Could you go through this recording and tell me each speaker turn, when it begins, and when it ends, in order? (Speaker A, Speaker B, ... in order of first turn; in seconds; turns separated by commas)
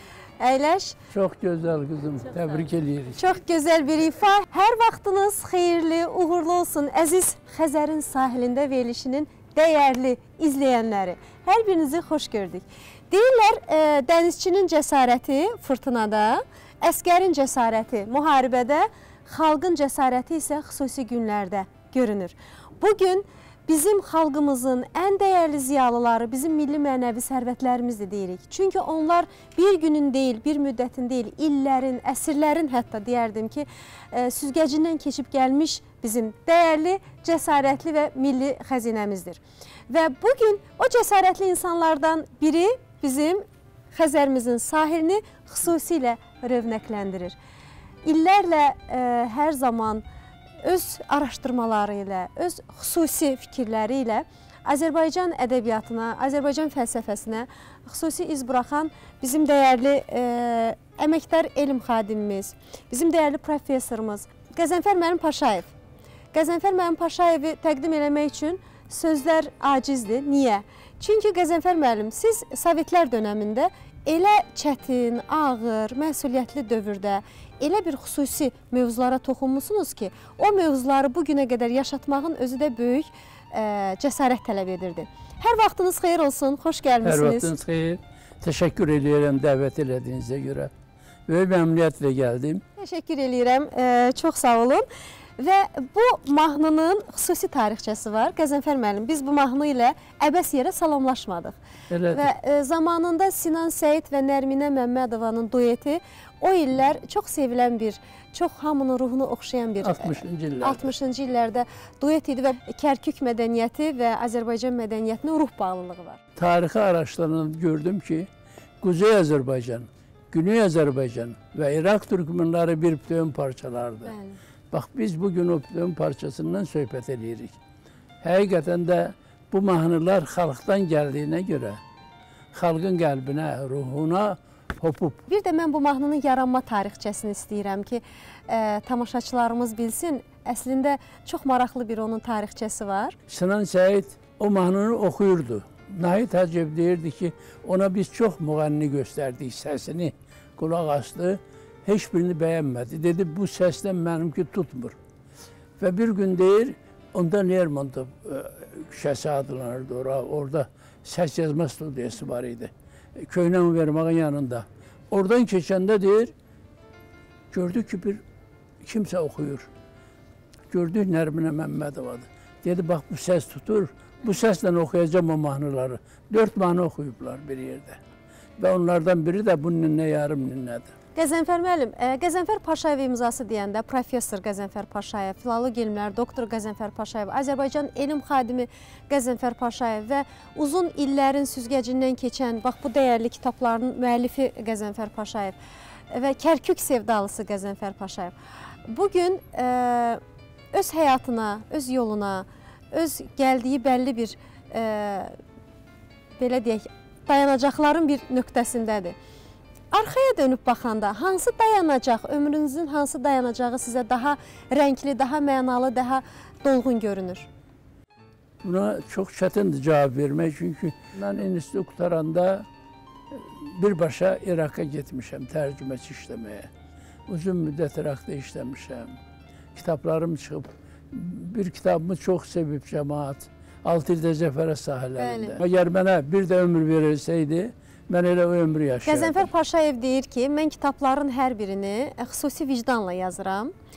Speaker A: 0.4-0.9, Speaker B: 1.1-3.2, Speaker A: 3.2-47.4, Speaker A: 48.0-50.0, Speaker A: 50.6-65.7, Speaker A: 66.3-87.5, Speaker B: 87.0-90.7, Speaker B: 91.3-92.6, Speaker A: 92.8-94.8, Speaker A: 95.4-101.6, Speaker B: 101.9-102.3, Speaker A: 102.1-116.2, Speaker B: 109.8-110.9, Speaker B: 116.3-118.3, Speaker B: 118.8-124.1, Speaker A: 124.0-124.4, Speaker B: 124.7-127.5, Speaker B: 128.2-131.8, Speaker B: 132.5-135.2, Speaker A: 135.3-143.1, Speaker B: 143.3-154.9, Speaker B: 155.8-166.3, Speaker B: 167.5-168.2, Speaker B: 168.8-169.7, Speaker B: 170.7-178.0, Speaker B: 178.6-180.9, Speaker A: 181.2-195.6, Speaker A: 196.1-198.3, Speaker A: 198.9-200.2, Speaker A: 200.7-205.3, Speaker A: 206.4-209.2, Speaker A: 209.9-217.5, Speaker B: 218.6-222.7, Speaker B: 223.3-226.7, Speaker B: 227.3-229.2, Speaker B: 229.7-239.5, Speaker A: 235.2-235.6, Speaker A: 239.1-243.7